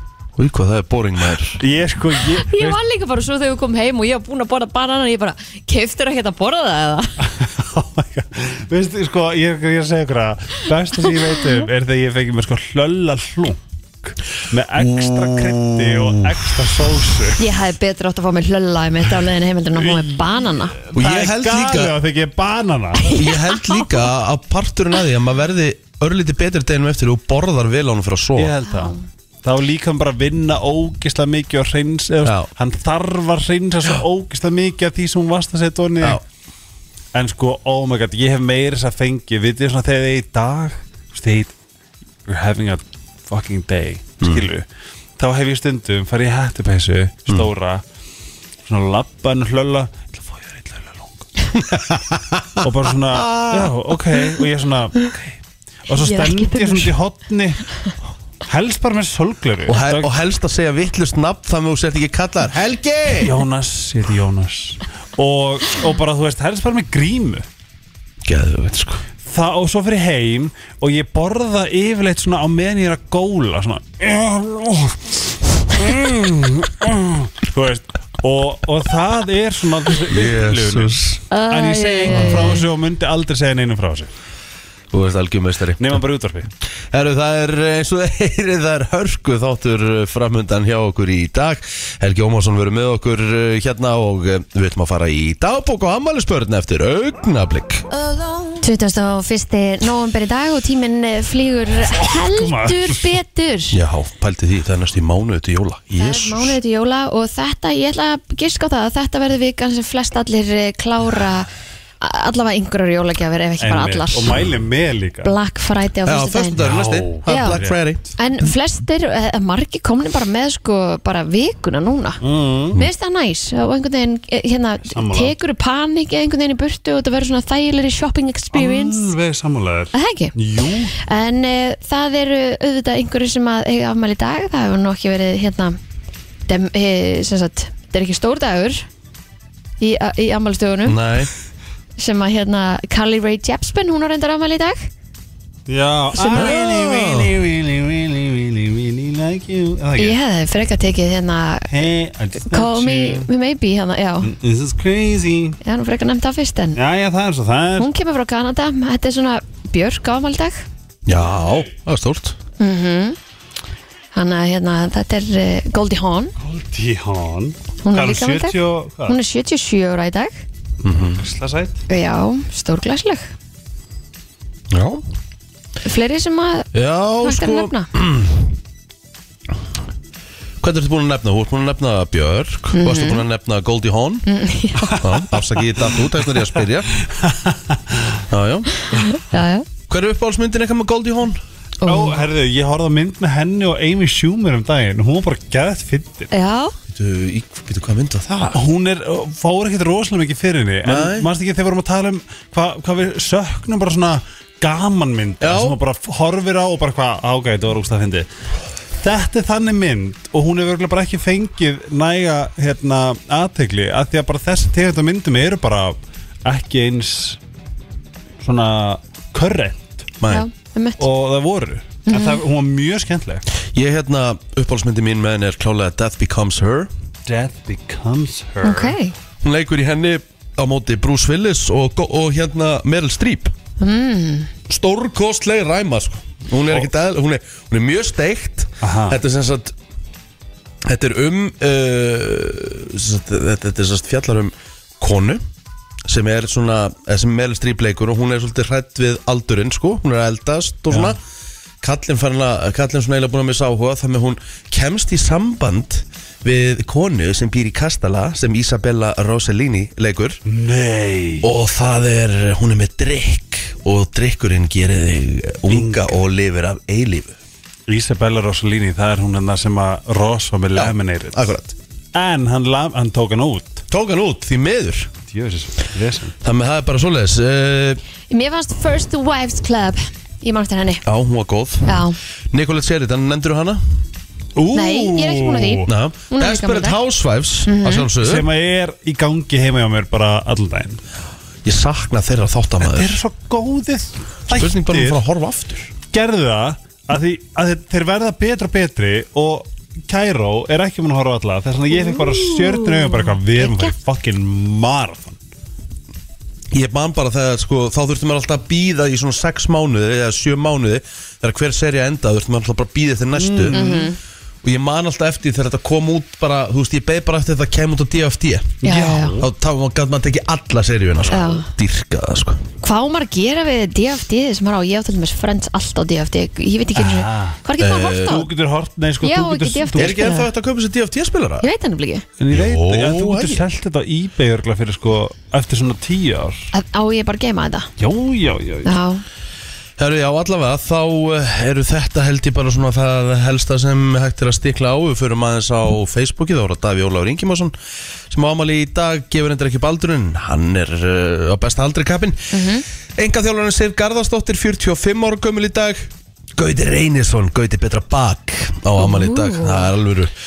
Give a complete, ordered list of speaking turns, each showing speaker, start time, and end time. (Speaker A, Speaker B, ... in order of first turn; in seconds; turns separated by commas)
Speaker A: 0.4-1.6, Speaker B: 1.6-2.8, Speaker C: 2.1-7.2, Speaker B: 7.2-17.4, Speaker A: 14.8-16.4, Speaker C: 17.4-20.8, Speaker B: 19.8-23.2, Speaker A: 20.9-21.9, Speaker A: 23.1-28.5, Speaker C: 23.1-24.0, Speaker B: 28.4-36.2, Speaker C: 28.7-29.0, Speaker A: 32.2-32.5, Speaker B: 37.1-41.5, Speaker B: 42.3-44.7, Speaker A: 44.2-44.5, Speaker B: 45.2-47.8, Speaker B: 48.6-51.3, Speaker A: 51.5-54.0, Speaker B: 52.6-57.8, Speaker C: 55.9-56.9, Speaker B: 58.5-60.1, Speaker A: 59.7-63.4, Speaker B: 63.2-67.5, Speaker A: 68.2-69.0, Speaker B: 69.2-81.0, Speaker A: 80.0-81.2, Speaker C: 81.3-82.6, Speaker B: 81.5-84.1, Speaker A: 82.2-82.5, Speaker A: 84.9-86.0, Speaker B: 85.8-86.5, Speaker A: 86.9-97.9, Speaker C: 97.9-103.8, Speaker B: 101.9-103.2, Speaker A: 103.7-106.6, Speaker C: 106.0-111.5, Speaker C: 112.0-114.4, Speaker B: 113.6-115.3, Speaker C: 115.2-116.6, Speaker A: 116.0-118.0, Speaker B: 116.6-117.8, Speaker C: 117.3-117.6, Speaker C: 118.2-122.2, Speaker B: 122.2-122.8, Speaker C: 122.8-129.1, Speaker B: 124.9-125.3, Speaker B: 128.5-130.9, Speaker C: 129.9-135.8, Speaker C: 136.5-138.8, Speaker C: 139.8-141.0, Speaker A: 140.8-141.3, Speaker C: 142.0-144.9, Speaker B: 145.7-150.2, Speaker C: 146.2-146.6, Speaker A: 146.3-147.3, Speaker C: 150.0-151.7, Speaker B: 151.7-153.3, Speaker C: 152.4-154.3, Speaker B: 154.2-155.6, Speaker C: 155.6-156.8, Speaker B: 156.8-157.9, Speaker C: 157.8-160.6, Speaker A: 161.1-162.4, Speaker C: 162.6-163.2, Speaker C: 164.1-166.3, Speaker B: 166.4-169.2, Speaker C: 167.8-170.4, Speaker A: 170.8-171.2, Speaker B: 171.1-171.8, Speaker C: 171.9-173.3, Speaker A: 174.7-175.0, Speaker C: 175.8-177.9, Speaker A: 176.7-178.6, Speaker A: 180.6-184.3, Speaker C: 182.7-183.2, Speaker C: 184.3-185.0, Speaker B: 184.8-185.2, Speaker A: 185.0-186.9, Speaker B: 187.0-188.2, Speaker A: 188.3-188.8, Speaker C: 188.8-189.7, Speaker A: 189.9-191.4, Speaker C: 191.8-192.2, Speaker B: 191.8-196.3, Speaker C: 196.3-196.8, Speaker A: 196.9-198.6, Speaker B: 198.5-208.3, Speaker A: 200.8-201.3, Speaker A: 205.4-205.8, Speaker B: 209.0-217.4, Speaker B: 218.4-220.1, Speaker A: 220.2-220.5, Speaker C: 220.3-221.0, Speaker B: 221.0-223.4, Speaker C: 222.1-222.4, Speaker A: 223.7-226.9, Speaker B: 227.3-229.0, Speaker C: 228.6-229.1, Speaker A: 229.4-233.5, Speaker C: 233.8-234.5, Speaker A: 234.7-239.8, Speaker B: 238.8-239.2, Speaker A: 240.9-245.4, Speaker A: 246.1-251.2, Speaker B: 250.9-251.2, Speaker A: 251.8-260.4, Speaker B: 260.5-261.5, Speaker A: 261.4-267.4, Speaker B: 265.7-266.2, Speaker B: 267.9-271.5, Speaker A: 270.7-271.8, Speaker B: 272.1-273.8, Speaker A: 273.9-275.1, Speaker B: 275.3-276.4, Speaker A: 276.4-278.0, Speaker C: 278.3-281.0, Speaker A: 281.1-283.8, Speaker C: 281.9-282.2, Speaker B: 284.6-285.9, Speaker C: 284.7-287.0, Speaker A: 285.9-288.5, Speaker C: 287.7-288.1, Speaker B: 288.2-291.0, Speaker A: 291.6-293.2, Speaker B: 292.8-295.2, Speaker A: 294.5-295.9, Speaker B: 296.1-305.4, Speaker C: 301.9-303.9, Speaker A: 306.7-313.9, Speaker B: 313.3-314.1, Speaker C: 313.7-314.2, Speaker A: 314.6-318.8, Speaker B: 318.8-319.5, Speaker C: 318.8-319.4, Speaker A: 319.4-322.6, Speaker C: 321.3-321.7, Speaker C: 322.8-328.5, Speaker B: 326.9-327.6, Speaker A: 327.8-328.4, Speaker B: 328.2-330.2, Speaker C: 329.2-330.5, Speaker A: 330.0-331.7, Speaker C: 331.6-332.3, Speaker B: 332.4-336.7, Speaker A: 332.5-333.6, Speaker C: 336.7-337.9, Speaker B: 338.0-339.0, Speaker C: 338.9-339.2, Speaker A: 340.0-347.8, Speaker A: 348.3-360.3, Speaker C: 352.5-352.9, Speaker C: 359.0-359.9